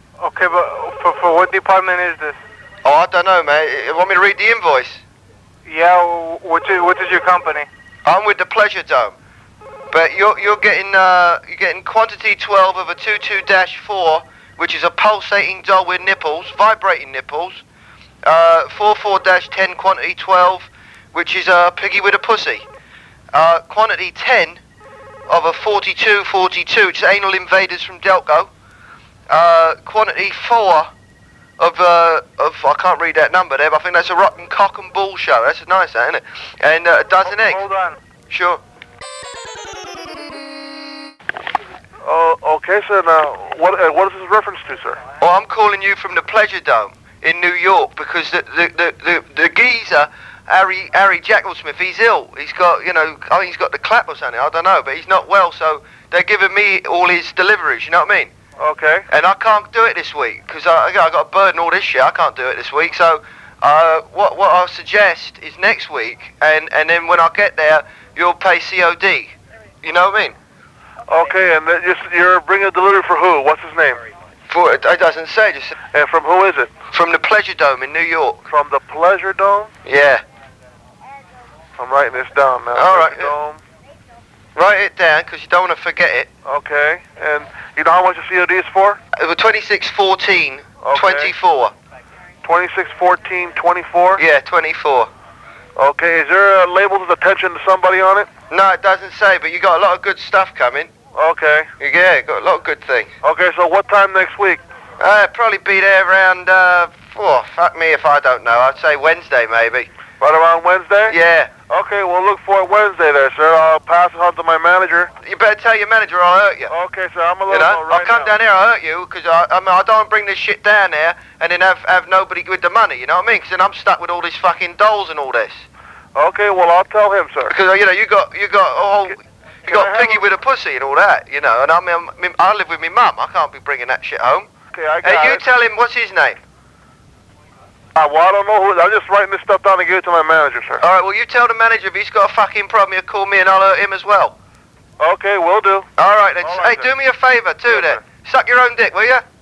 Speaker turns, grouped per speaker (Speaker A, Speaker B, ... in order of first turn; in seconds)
Speaker A: 0.2-2.4, 5.7-7.7, 37.2-38.0
Speaker B: 2.8-5.0, 8.0-9.1, 9.9-17.6, 18.2-22.6, 23.3-24.6, 25.3-28.5, 29.3-30.9, 31.6-37.6, 38.3-38.6, 45.2-58.3, 59.1-70.3, 74.5-75.7, 76.9-78.4, 79.8-80.2, 82.7-83.3, 84.5-86.3, 89.1-91.7, 94.2-95.1, 98.5-100.9, 101.8-103.1, 105.0-109.9, 111.1-111.5, 115.2-116.7, 117.5-125.6, 127.5-134.5, 135.0-136.4, 140.8-144.3, 146.0-149.2
Speaker C: 42.0-45.0, 58.6-59.0, 71.0-74.0, 75.9-76.7, 78.5-79.7, 81.8-83.6, 86.4-89.0, 90.8-91.3, 92.4-94.2, 95.8-98.3, 101.1-101.7, 103.2-104.6, 110.2-111.2, 111.7-115.1, 116.7-118.3, 126.1-127.5, 129.6-130.2, 134.7-135.4, 137.9-140.8, 145.0-145.9, 146.4-146.9, 147.7-148.0